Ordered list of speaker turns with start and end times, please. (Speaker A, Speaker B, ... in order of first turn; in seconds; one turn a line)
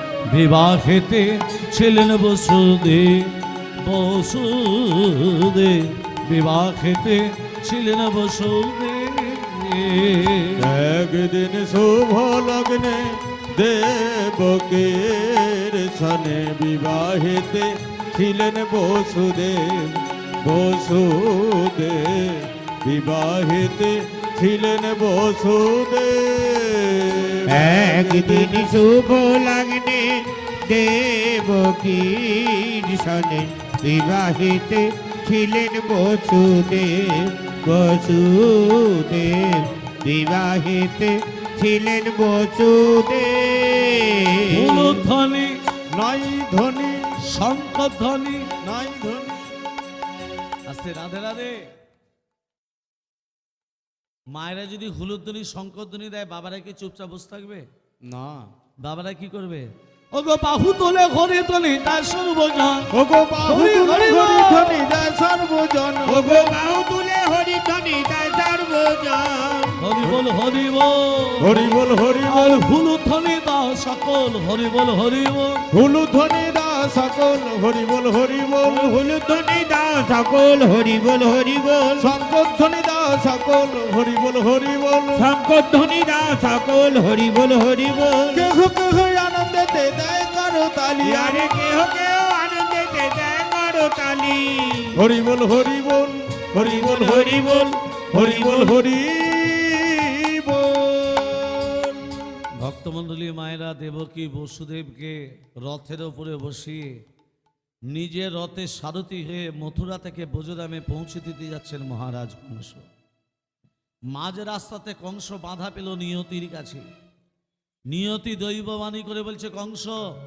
Speaker A: 0.3-10.6
Speaker B: 10.6-28.6
Speaker C: 27.5-45.0
Speaker A: 44.5-45.6
Speaker B: 45.9-47.1
Speaker A: 47.2-48.5
Speaker B: 48.6-49.4
Speaker A: 50.7-51.6
Speaker A: 54.3-57.6
Speaker B: 58.0-58.5
Speaker A: 58.8-62.9
Speaker B: 62.9-66.5
Speaker A: 63.5-64.8
Speaker C: 66.1-69.8
Speaker A: 69.8-71.6
Speaker B: 71.4-72.7
Speaker A: 72.3-75.6
Speaker B: 75.7-79.0
Speaker C: 78.7-82.2
Speaker B: 82.0-85.3
Speaker C: 85.2-88.5
Speaker B: 88.3-91.5
Speaker C: 91.0-95.0
Speaker B: 95.0-102.4
Speaker C: 96.5-98.8
Speaker A: 102.6-107.0
Speaker A: 107.9-112.8
Speaker A: 114.1-116.8
Speaker A: 117.9-120.0